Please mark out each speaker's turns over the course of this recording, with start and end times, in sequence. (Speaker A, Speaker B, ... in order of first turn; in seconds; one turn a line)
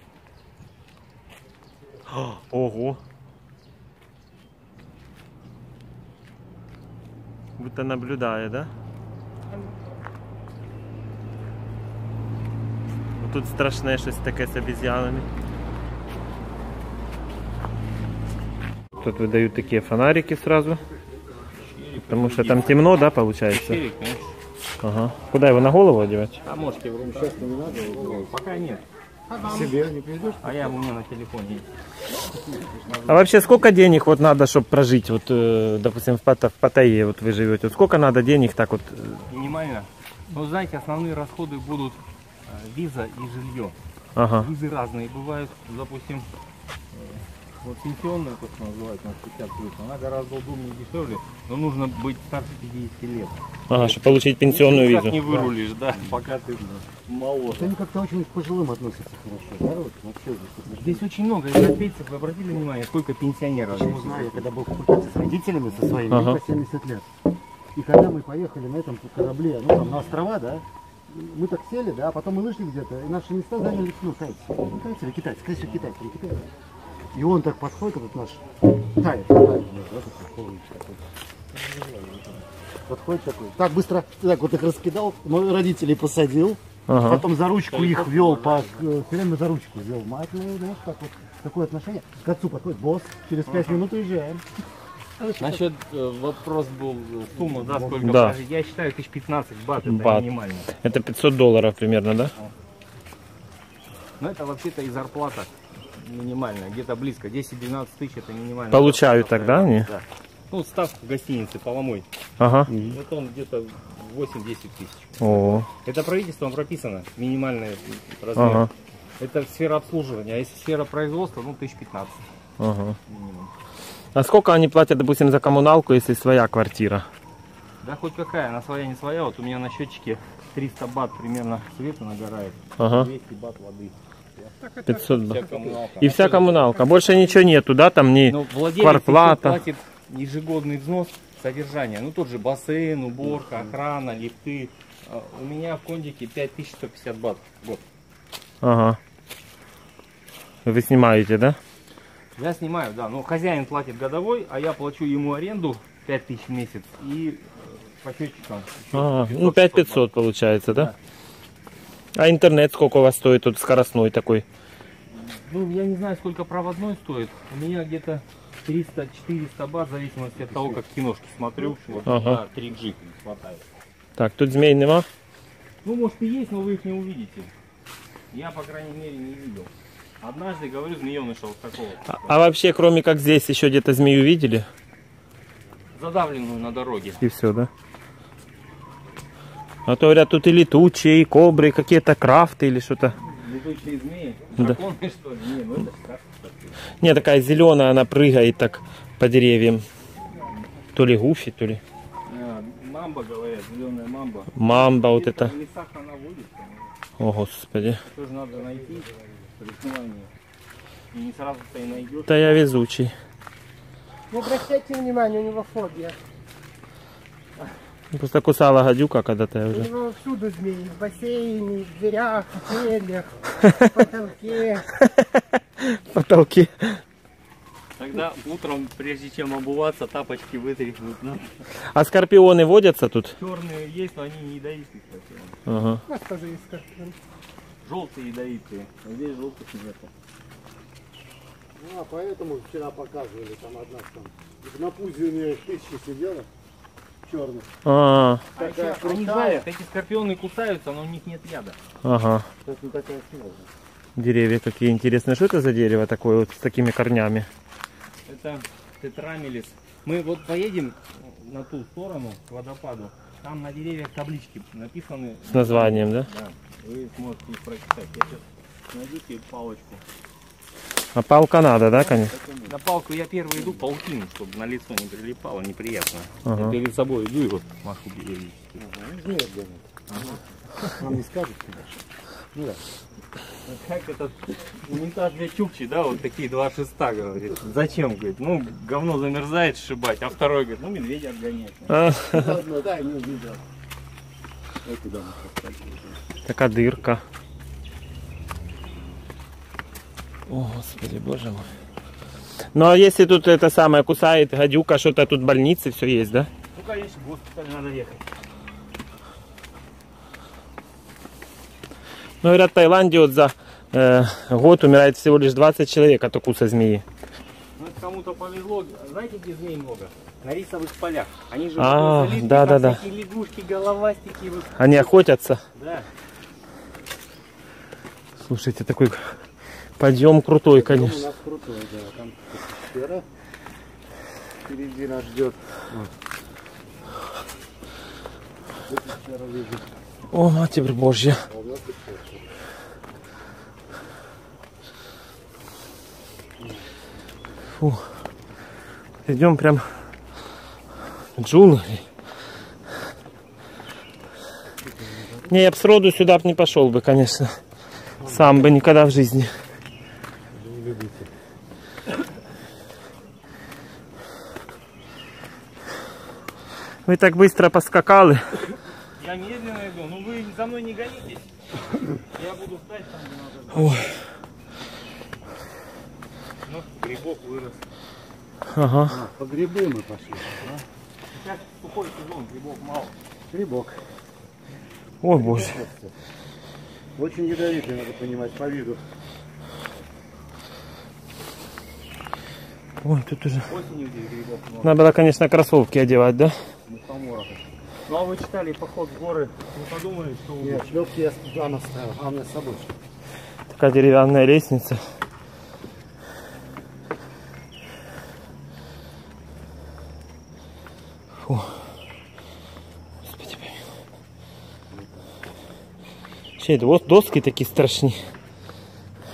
Speaker A: 2.1-3.0
Speaker A: 7.6-8.7
Speaker B: 9.5-9.9
Speaker A: 13.2-15.3
Speaker A: 19.0-20.8
Speaker C: 21.6-22.9
Speaker A: 22.1-23.8
Speaker C: 23.5-24.4
Speaker A: 24.8-26.4
Speaker C: 26.4-28.8
Speaker D: 26.9-28.3
Speaker B: 29.3-29.7
Speaker D: 29.4-30.7
Speaker C: 30.4-31.7
Speaker D: 32.1-33.1
Speaker A: 33.1-39.2
Speaker C: 39.3-43.8
Speaker A: 44.2-44.5
Speaker C: 44.4-46.3
Speaker C: 46.9-57.7
Speaker A: 53.7-55.2
Speaker D: 55.2-55.5
Speaker D: 57.5-61.0
Speaker C: 60.8-64.5
Speaker D: 63.7-67.1
Speaker A: 66.1-66.4
Speaker D: 67.8-76.5
Speaker D: 77.1-78.4
Speaker D: 79.0-81.0
Speaker C: 81.5-82.4
Speaker D: 82.9-94.5
Speaker A: 86.9-87.2
Speaker C: 87.7-88.8
Speaker C: 93.5-93.8
Speaker D: 95.2-95.6
Speaker C: 95.4-100.7
Speaker D: 97.6-98.1
Speaker A: 98.0-98.4
Speaker A: 99.9-102.3
Speaker C: 104.2-112.1
Speaker A: 108.7-109.9
Speaker A: 112.4-112.9
Speaker C: 112.7-122.2
Speaker A: 115.2-115.7
Speaker A: 118.4-118.7
Speaker A: 122.6-123.0
Speaker C: 123.1-123.5
Speaker A: 124.2-127.1
Speaker C: 127.8-134.5
Speaker A: 132.8-133.1
Speaker B: 134.6-135.5
Speaker A: 134.9-135.4
Speaker C: 135.1-137.1
Speaker D: 135.5-135.8
Speaker A: 136.0-139.6
Speaker B: 136.6-137.5
Speaker C: 138.3-147.8
Speaker D: 143.3-143.7
Speaker A: 148.6-149.0
Speaker A: 150.7-151.6
Speaker C: 152.3-160.1
Speaker A: 158.9-160.9
Speaker C: 160.7-161.0
Speaker A: 162.2-164.4
Speaker C: 165.1-173.7
Speaker D: 170.5-170.8
Speaker A: 172.1-172.4
Speaker A: 174.2-175.1
Speaker C: 175.8-177.5
Speaker C: 178.3-179.7
Speaker C: 180.2-182.4
Speaker A: 182.1-184.7
Speaker C: 185.9-187.2
Speaker A: 187.2-187.7
Speaker A: 189.9-193.2
Speaker C: 193.2-196.9
Speaker A: 197.0-199.8
Speaker A: 200.9-201.8
Speaker C: 202.3-206.9
Speaker A: 204.6-205.5
Speaker A: 207.2-208.0
Speaker C: 208.0-210.3
Speaker C: 211.1-212.7
Speaker A: 212.3-213.1
Speaker B: 214.3-216.2
Speaker A: 218.1-219.9
Speaker B: 219.7-224.9
Speaker A: 225.0-227.0
Speaker C: 228.0-231.7
Speaker A: 231.8-233.4
Speaker C: 233.4-235.6
Speaker A: 235.7-236.0
Speaker B: 236.1-237.2
Speaker C: 237.8-240.1
Speaker D: 241.8-246.5
Speaker D: 247.2-247.7
Speaker A: 247.8-248.5
Speaker C: 248.6-251.8
Speaker D: 248.6-249.7
Speaker A: 252.0-252.5
Speaker D: 252.6-253.7
Speaker A: 254.2-257.5
Speaker C: 258.3-270.0
Speaker A: 265.5-266.3
Speaker A: 271.1-272.3
Speaker D: 271.9-272.8
Speaker C: 272.6-278.8
Speaker A: 276.4-276.8
Speaker D: 278.8-280.2
Speaker C: 280.1-280.9
Speaker D: 280.9-282.8
Speaker C: 283.6-292.0
Speaker A: 291.9-292.5
Speaker D: 292.3-293.6
Speaker D: 294.8-296.2
Speaker A: 296.5-297.2
Speaker A: 300.5-301.7
Speaker A: 302.7-306.5
Speaker C: 306.7-308.2
Speaker A: 312.4-317.1
Speaker C: 317.8-325.1
Speaker A: 321.8-323.0
Speaker A: 324.8-325.6
Speaker C: 325.8-326.1
Speaker A: 328.4-329.4
Speaker A: 330.0-331.3
Speaker D: 330.7-333.2
Speaker D: 334.6-336.1
Speaker D: 338.9-339.9
Speaker A: 340.3-341.4
Speaker D: 341.5-342.6
Speaker D: 346.6-346.9
Speaker A: 347.8-348.1
Speaker A: 349.2-350.1
Speaker A: 351.4-352.1
Speaker D: 354.8-355.6
Speaker A: 355.5-357.6
Speaker D: 358.2-358.8
Speaker A: 358.2-359.5
Speaker D: 360.5-361.3
Speaker A: 367.1-368.6
Speaker C: 369.2-371.5
Speaker C: 372.2-374.1
Speaker A: 373.8-374.1
Speaker C: 376.6-377.9
Speaker A: 378.7-379.2
Speaker D: 379.1-380.9
Speaker C: 381.3-383.2
Speaker D: 383.5-384.1
Speaker A: 385.2-385.8
Speaker D: 385.3-386.2
Speaker D: 387.1-389.0
Speaker A: 393.0-393.7
Speaker C: 393.7-395.0
Speaker A: 394.8-396.6
Speaker C: 396.9-401.0
Speaker D: 400.6-402.9
Speaker A: 403.7-405.0
Speaker A: 411.4-411.8
Speaker A: 413.2-413.8
Speaker D: 414.9-415.3
Speaker A: 416.6-418.2